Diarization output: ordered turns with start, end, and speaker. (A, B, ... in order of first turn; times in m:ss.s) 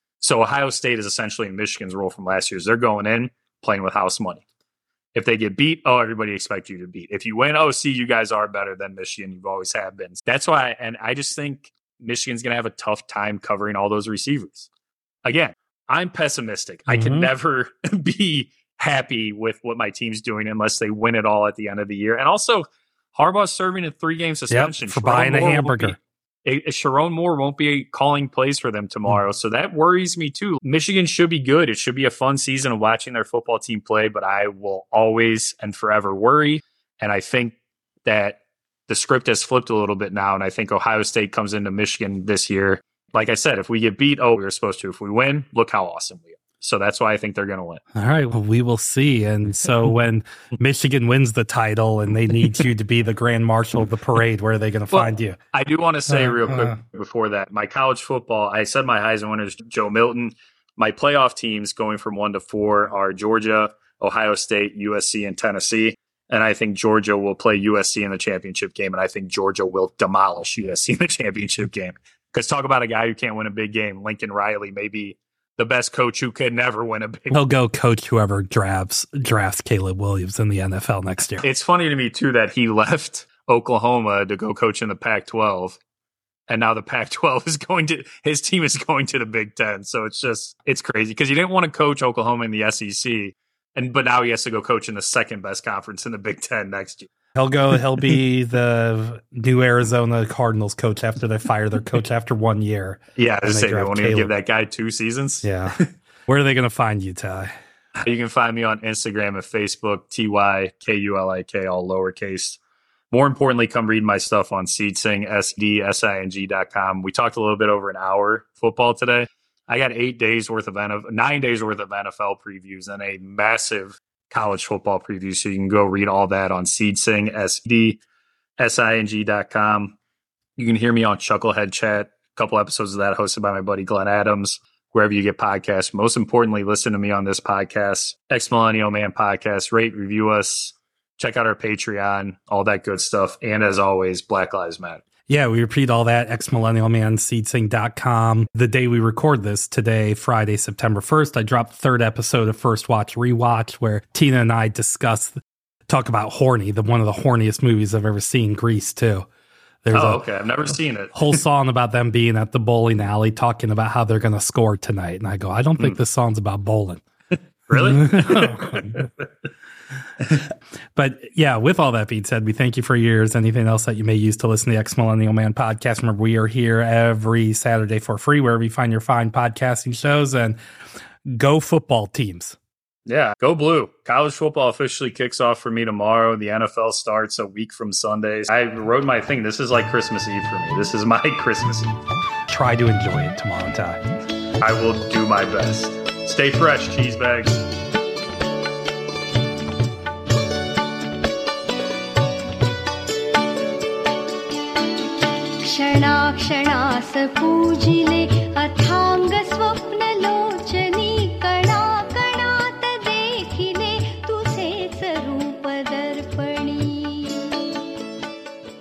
0:00.2-0:04.4 A
0:05.1-0:14.7 A
0:15.2-0:47.8 A
0:16.9-0:17.3 B
0:24.5-0:26.0 B
0:47.9-0:55.4 B
0:54.9-1:17.4 A
0:56.1-0:56.8 B
1:17.3-1:21.5 B
1:21.4-1:25.8 A
1:26.5-1:37.1 A
1:37.4-1:44.3 B
1:43.2-1:45.9 A
1:45.4-1:47.5 B
1:48.0-1:52.6 A
1:53.1-2:08.0 A
2:08.6-2:10.0 A
2:10.6-2:25.0 A
2:25.3-2:35.4 B
2:35.9-2:39.3 B
2:39.8-2:40.2 B
2:39.9-2:41.4 A
2:41.1-2:47.0 B
2:47.7-2:49.1 A
2:47.7-2:49.1 B
2:51.0-3:00.6 B
3:01.3-3:02.6 B
3:03.1-3:11.9 A
3:12.5-3:14.0 B
3:14.6-3:17.6 A
3:25.6-3:37.6 C